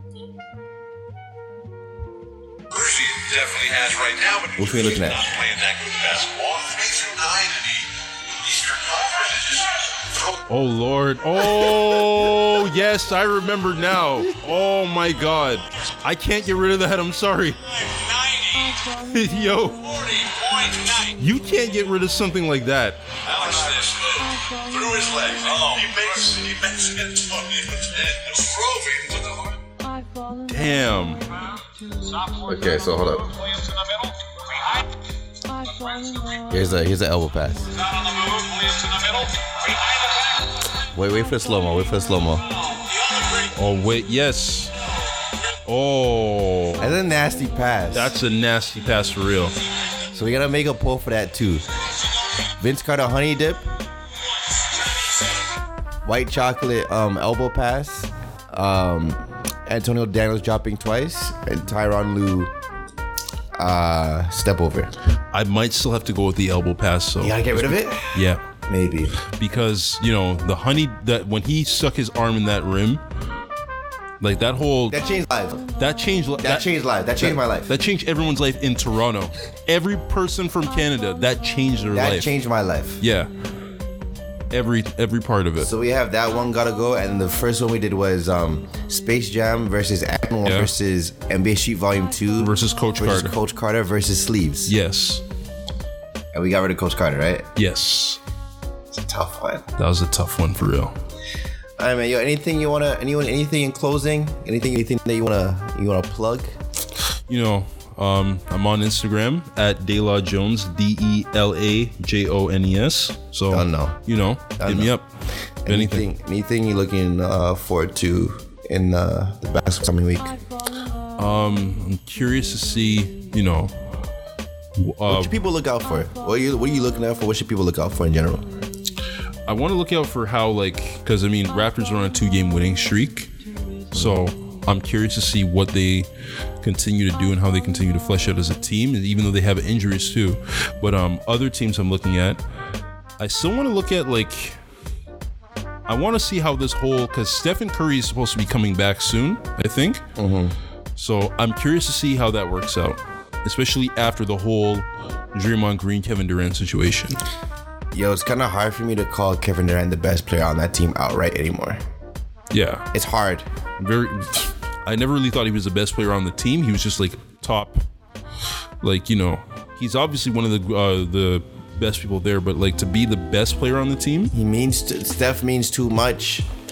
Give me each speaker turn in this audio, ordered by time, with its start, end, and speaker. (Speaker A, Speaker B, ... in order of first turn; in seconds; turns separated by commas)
Speaker A: 2.7-9.9, Speaker B: 4.6-5.2, Speaker C: 10.5-17.6, Speaker A: 17.8-18.8, Speaker C: 18.9-19.9, Speaker A: 19.8-21.1, Speaker C: 21.1-23.1, Speaker A: 23.2-29.6, Speaker C: 30.5-31.2, Speaker B: 32.4-33.4, Speaker B: 36.5-37.7, Speaker A: 37.9-39.2, Speaker B: 40.9-42.4, Speaker A: 42.9-43.5, Speaker C: 43.5-44.7, Speaker C: 45.6-46.9, Speaker B: 46.8-48.1, Speaker C: 47.9-49.6, Speaker B: 50.1-51.6, Speaker B: 52.6-53.6, Speaker B: 56.0-62.5, Speaker B: 63.6-64.9, Speaker C: 65.3-68.4, Speaker B: 67.2-69.2, Speaker C: 69.2-73.0, Speaker C: 74.2-75.0, Speaker B: 74.9-75.6, Speaker C: 75.7-82.3, Speaker B: 76.4-77.7, Speaker B: 81.9-83.0, Speaker C: 83.0-83.3, Speaker C: 84.5-85.7, Speaker B: 85.6-94.7, Speaker C: 90.4-90.7, Speaker C: 92.4-93.3, Speaker C: 94.7-95.2, Speaker B: 96.3-97.5, Speaker C: 97.5-98.2, Speaker B: 98.9-99.7, Speaker C: 99.8-100.9, Speaker B: 101.8-106.5, Speaker C: 107.3-115.1, Speaker B: 113.5-114.0, Speaker B: 114.6-114.9, Speaker B: 115.6-120.3, Speaker C: 115.7-116.0, Speaker C: 121.2-123.8, Speaker C: 124.8-125.4, Speaker B: 125.0-128.5, Speaker C: 129.5-133.3, Speaker C: 133.9-136.1, Speaker C: 136.6-142.4, Speaker C: 143.2-144.6, Speaker C: 145.9-150.0, Speaker B: 150.2-150.5, Speaker C: 150.9-157.2, Speaker B: 157.9-161.8, Speaker C: 162.5-162.9, Speaker B: 162.9-163.4, Speaker C: 163.8-167.8, Speaker C: 168.8-174.3, Speaker B: 174.3-176.5